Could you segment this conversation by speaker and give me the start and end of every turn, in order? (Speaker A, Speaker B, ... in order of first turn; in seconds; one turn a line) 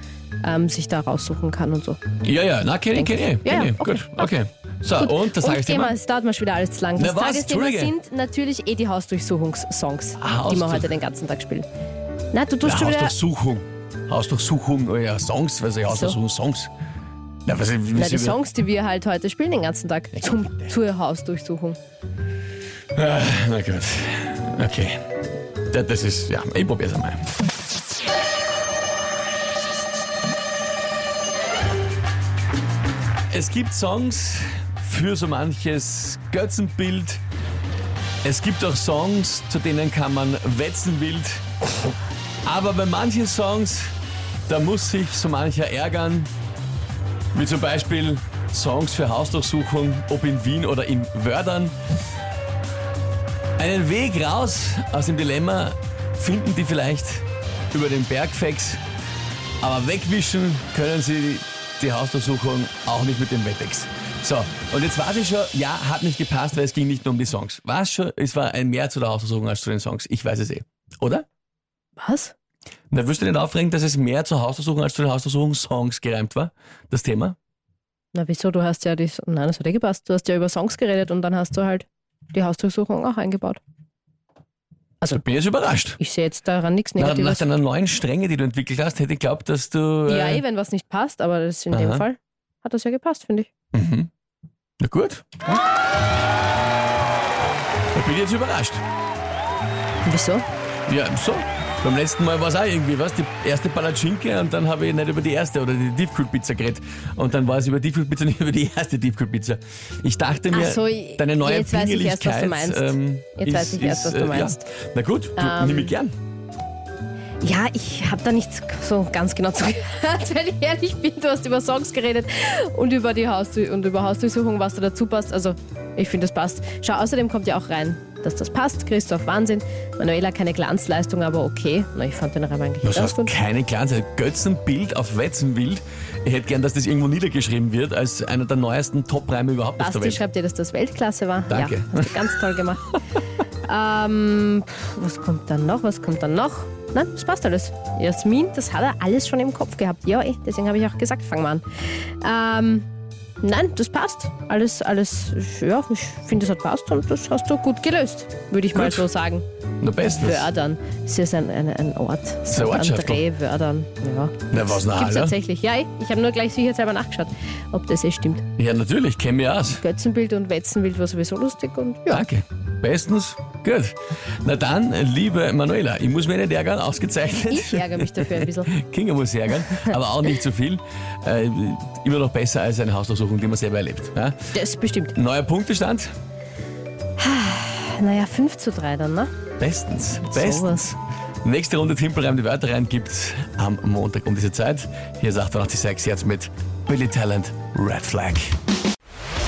Speaker A: 0.4-2.0
Speaker B: 2.2-6.0
Speaker A: 2.9-4.3
Speaker A: 5.0-11.7
Speaker B: 7.0-8.0
Speaker B: 10.2-10.9
Speaker A: 12.3-13.2
Speaker B: 12.6-16.7
Speaker A: 15.9-16.2
Speaker B: 17.5-18.4
Speaker A: 17.9-21.8
Speaker B: 22.9-25.0
Speaker B: 25.7-27.3
Speaker B: 33.3-37.2
Speaker B: 38.2-41.4
Speaker B: 42.5-43.9
Speaker B: 44.5-46.3
Speaker B: 47.3-51.8
Speaker B: 53.6-58.8
Speaker B: 59.6-71.2
Speaker A: 72.0-72.3
Speaker B: 72.9-77.4
Speaker A: 78.1-83.6
Speaker B: 85.0-86.0
Speaker A: 86.0-87.5
Speaker B: 87.0-90.4
Speaker A: 90.1-93.5
Speaker B: 91.7-92.1
Speaker B: 93.7-94.1
Speaker B: 94.8-95.3
Speaker B: 97.9-98.8
Speaker A: 100.0-100.5
Speaker B: 100.9-116.1
Speaker A: 110.5-114.6
Speaker A: 115.4-116.0
Speaker A: 117.4-133.3
Speaker B: 132.8-140.2
Speaker A: 139.8-143.0
Speaker B: 141.5-142.2
Speaker A: 143.7-152.9
Speaker A: 153.4-159.4
Speaker B: 158.7-159.1
Speaker B: 159.8-160.5
Speaker A: 160.0-168.4
Speaker B: 162.5-163.2
Speaker B: 164.5-165.4
Speaker B: 168.6-169.8
Speaker A: 169.7-172.3
Speaker B: 172.1-184.5
Speaker A: 177.5-178.8
Speaker A: 179.7-179.9
Speaker A: 184.5-185.2
Speaker B: 185.2-186.1
Speaker A: 187.2-189.3
Speaker B: 189.6-198.6
Speaker A: 190.3-190.9